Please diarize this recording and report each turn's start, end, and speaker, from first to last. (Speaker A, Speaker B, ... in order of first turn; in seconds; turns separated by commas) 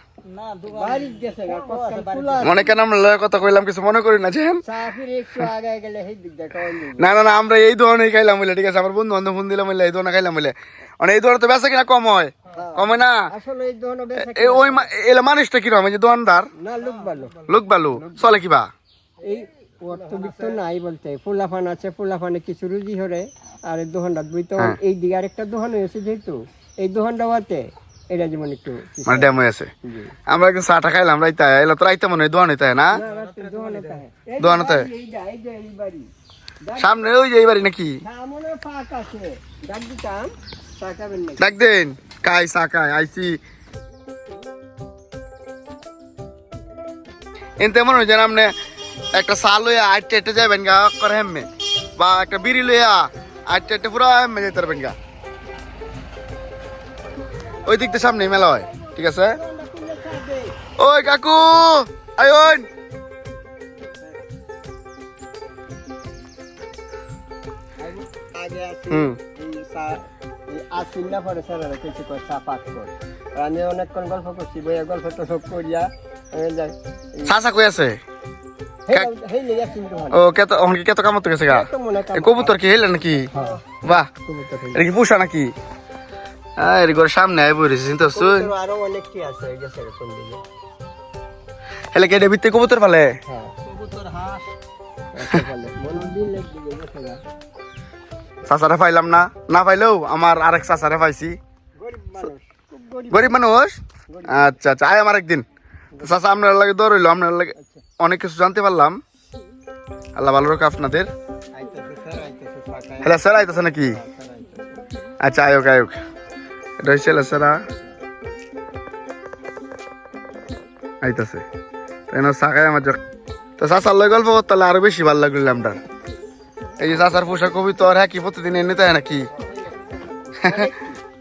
Speaker A: 0.3-2.7, Speaker B: 0.7-2.6, Speaker C: 2.4-4.6, Speaker B: 4.7-7.1, Speaker C: 7.0-13.3, Speaker B: 12.6-14.9, Speaker C: 14.2-16.5, Speaker B: 16.6-17.4, Speaker A: 16.8-17.6, Speaker C: 17.5-18.7, Speaker B: 17.9-18.4, Speaker A: 19.2-20.6, Speaker B: 19.2-29.3, Speaker C: 29.1-29.7, Speaker B: 29.8-30.1, Speaker C: 30.3-33.0, Speaker B: 32.9-36.1, Speaker A: 33.0-34.0, Speaker C: 34.4-34.9, Speaker B: 36.6-37.1, Speaker C: 36.8-38.0, Speaker B: 38.0-41.5, Speaker C: 41.4-43.4, Speaker C: 47.6-48.5, Speaker C: 49.1-55.0, Speaker B: 57.4-60.5, Speaker C: 57.6-59.4, Speaker C: 60.8-62.7, Speaker B: 67.8-77.3, Speaker C: 68.9-69.2, Speaker C: 77.2-78.0, Speaker B: 78.9-80.2, Speaker C: 80.1-83.3, Speaker B: 81.5-82.6, Speaker B: 83.3-83.6, Speaker C: 83.8-84.1, Speaker B: 84.2-84.8, Speaker C: 84.7-85.5, Speaker C: 86.6-88.5, Speaker B: 88.1-90.4, Speaker C: 91.9-93.1, Speaker B: 93.3-93.5, Speaker A: 93.6-94.5, Speaker B: 95.1-97.2, Speaker C: 98.5-101.4, Speaker B: 101.8-103.4, Speaker C: 103.1-105.5, Speaker B: 104.1-104.6, Speaker C: 106.0-109.0, Speaker B: 107.6-107.8, Speaker C: 110.2-111.1, Speaker B: 111.5-114.8, Speaker C: 113.0-114.0, Speaker C: 115.2-116.0, Speaker C: 116.8-117.6, Speaker C: 121.0-121.4, Speaker C: 122.1-123.0, Speaker C: 123.6-125.8, Speaker C: 126.8-129.3, Speaker B: 130.3-131.0